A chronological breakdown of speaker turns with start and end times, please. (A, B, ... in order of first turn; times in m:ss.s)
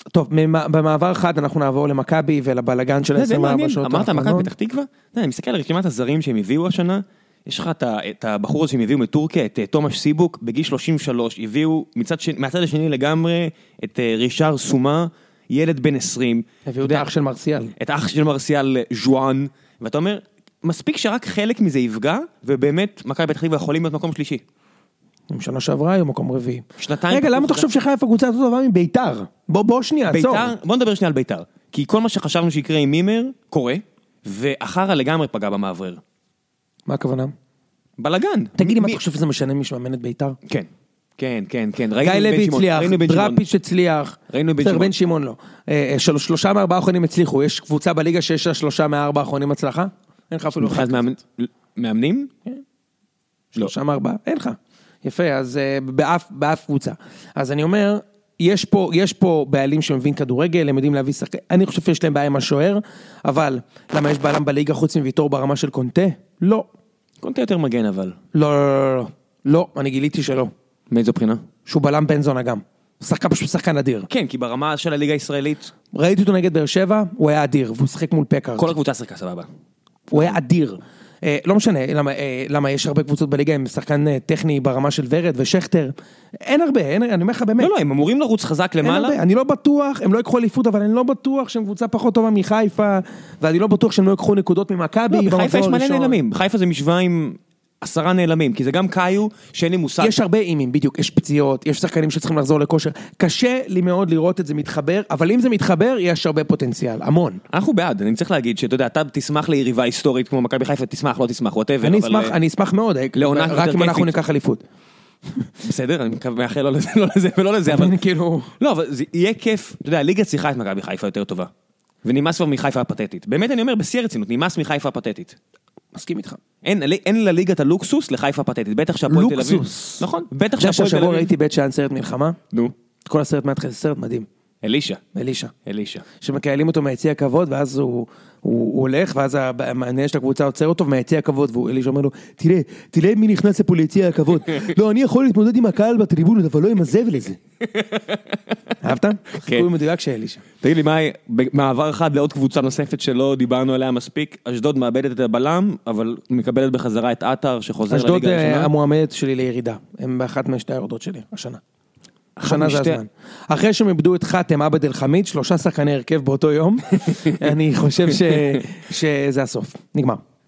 0:00.1-0:04.5 A
0:03.1-0:17.0 B
0:16.6-0:17.7 A
0:17.8-0:24.4 B
0:25.3-0:30.5 A
0:26.8-0:27.7 B
0:30.0-0:36.0 B
0:36.9-0:37.3 A
0:38.0-0:39.0 B
0:38.6-0:40.4 A
0:40.4-0:43.4 B
0:42.0-0:51.1 A
0:44.3-0:44.9 B
0:50.6-0:52.3 B
0:53.5-1:06.7 A
1:07.2-1:08.2 B
1:08.3-1:10.5 A
1:10.9-1:11.4 B
1:11.6-1:14.1 A
1:14.1-1:15.7 B
1:15.9-1:18.7 A
1:18.6-1:19.4 B
1:20.1-1:27.7 A
1:27.6-1:29.2 B
1:28.8-1:36.2 A
1:35.1-1:40.2 B
1:40.0-1:47.4 A
1:47.5-1:52.3 B
1:51.8-1:54.6 A
1:53.1-1:54.2 B
1:55.6-1:58.0 B
1:57.7-1:58.5 A
1:58.6-2:01.5 B
2:02.0-2:05.4 B
2:05.9-2:06.4 A
2:06.6-2:11.3 B
2:09.1-2:12.4 A
2:13.0-2:14.3 A
2:14.6-2:15.0 B
2:15.1-2:15.5 A
2:15.6-2:16.0 B
2:16.2-2:27.4 A
2:27.6-2:28.7 B
2:28.8-2:30.4 A
2:30.6-2:38.7 B
2:37.9-2:41.6 A
2:42.4-2:43.0 B
2:42.4-2:50.2 A